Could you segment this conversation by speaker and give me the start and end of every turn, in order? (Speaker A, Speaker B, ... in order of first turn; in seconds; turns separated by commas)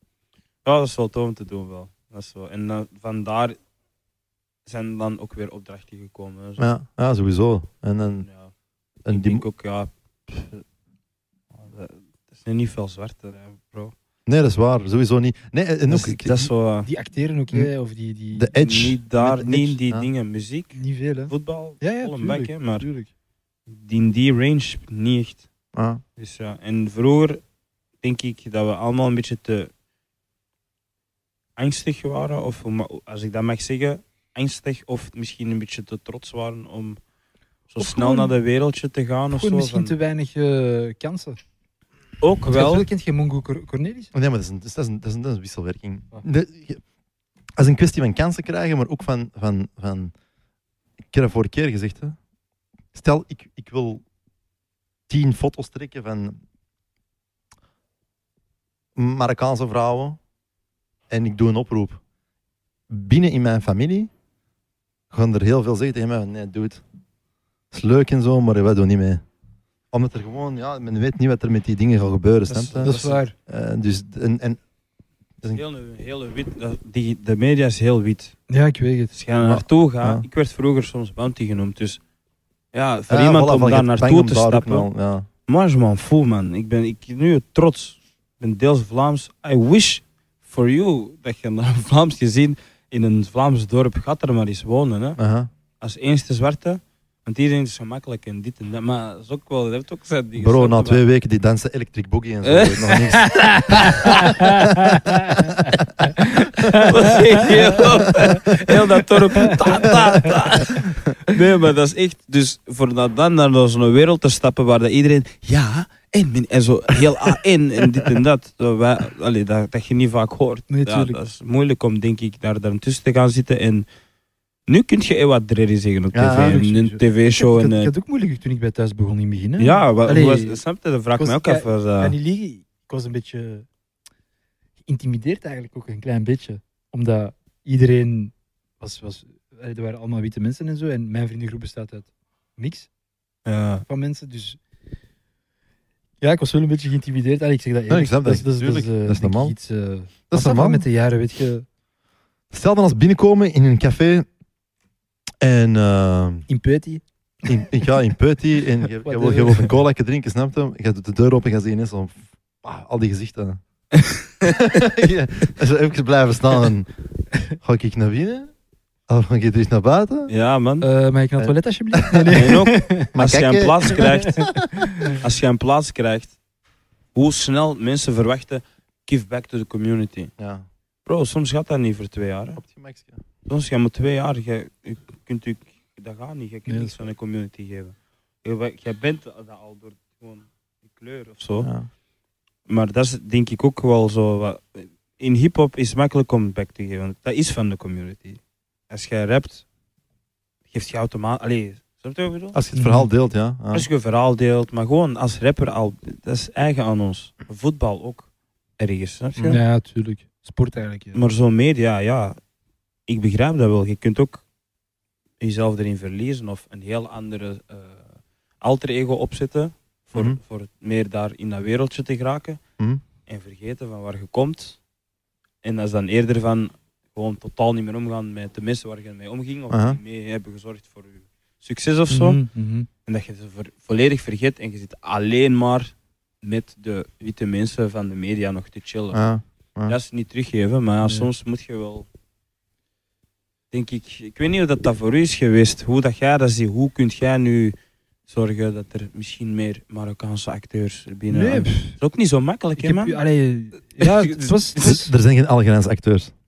Speaker A: 0.7-3.6, Speaker A: 4.7-6.7, Speaker B: 6.6-8.3, Speaker A: 8.2-8.5, Speaker B: 9.1-9.4, Speaker A: 9.1-10.6, Speaker A: 11.6-13.9, Speaker B: 14.3-16.5, Speaker A: 15.9-16.9, Speaker C: 16.9-18.5, Speaker B: 18.4-20.1, Speaker A: 18.6-22.9, Speaker C: 20.8-23.1, Speaker A: 23.7-25.5, Speaker B: 25.7-26.0, Speaker A: 26.2-27.4, Speaker A: 28.0-29.7, Speaker A: 31.6-37.0, Speaker A: 37.7-39.9, Speaker C: 37.8-38.3, Speaker C: 39.3-41.4, Speaker A: 42.2-42.9, Speaker C: 42.5-44.1, Speaker B: 44.1-46.8, Speaker B: 47.6-50.1, Speaker B: 51.1-52.2, Speaker B: 52.9-54.0, Speaker B: 55.1-56.4, Speaker B: 59.0-60.2, Speaker B: 61.1-62.0, Speaker B: 62.9-64.1, Speaker B: 65.1-66.8, Speaker B: 67.7-69.2, Speaker B: 69.9-74.6, Speaker A: 72.5-73.2, Speaker C: 72.8-73.3, Speaker A: 75.5-78.4, Speaker C: 78.5-79.1, Speaker A: 79.1-82.0, Speaker B: 79.4-80.2, Speaker A: 82.7-84.9, Speaker B: 83.1-85.3, Speaker A: 85.5-95.2, Speaker B: 95.2-95.5, Speaker A: 95.8-101.0, Speaker B: 100.4-106.9, Speaker A: 102.4-104.5, Speaker C: 103.3-110.3, Speaker A: 106.8-123.9, Speaker B: 109.8-111.1, Speaker C: 120.7-121.2, Speaker A: 124.7-127.9, Speaker B: 126.1-126.6, Speaker C: 126.3-130.6, Speaker A: 129.6-132.2, Speaker C: 131.2-133.7, Speaker C: 134.9-142.9, Speaker A: 143.5-143.8, Speaker C: 143.9-144.6, Speaker C: 146.2-151.7, Speaker B: 147.9-149.6, Speaker B: 150.3-150.9, Speaker B: 152.5-154.3, Speaker B: 155.4-156.5, Speaker C: 156.5-157.0, Speaker B: 157.4-163.6, Speaker C: 159.0-159.7, Speaker A: 163.9-164.6, Speaker B: 164.4-166.9, Speaker B: 167.6-168.5, Speaker B: 169.1-170.3, Speaker A: 170.3-170.9, Speaker C: 170.8-173.1, Speaker B: 171.4-172.4, Speaker A: 172.3-174.5, Speaker B: 173.1-174.7, Speaker C: 174.3-175.2, Speaker A: 175.1-176.4, Speaker A: 177.2-180.3, Speaker B: 180.4-180.7, Speaker A: 181.1-182.6, Speaker B: 182.6-183.2, Speaker A: 183.5-191.7, Speaker C: 186.7-187.0, Speaker B: 191.6-191.9, Speaker A: 192.7-199.7, Speaker A: 200.7-202.6, Speaker B: 202.5-203.9, Speaker C: 202.7-203.1, Speaker A: 203.7-208.3, Speaker A: 208.8-209.6, Speaker C: 209.4-211.2, Speaker A: 211.1-212.4, Speaker A: 213.1-214.4, Speaker A: 215.4-218.1, Speaker A: 218.6-222.6, Speaker A: 223.3-224.8, Speaker A: 225.6-232.4, Speaker B: 229.7-230.0, Speaker C: 232.1-232.9, Speaker A: 233.1-239.2, Speaker B: 239.1-240.0, Speaker A: 239.9-242.1, Speaker A: 243.7-247.8, Speaker A: 248.3-253.2, Speaker C: 251.3-252.0, Speaker C: 252.8-255.1, Speaker A: 254.0-255.0, Speaker B: 254.8-256.3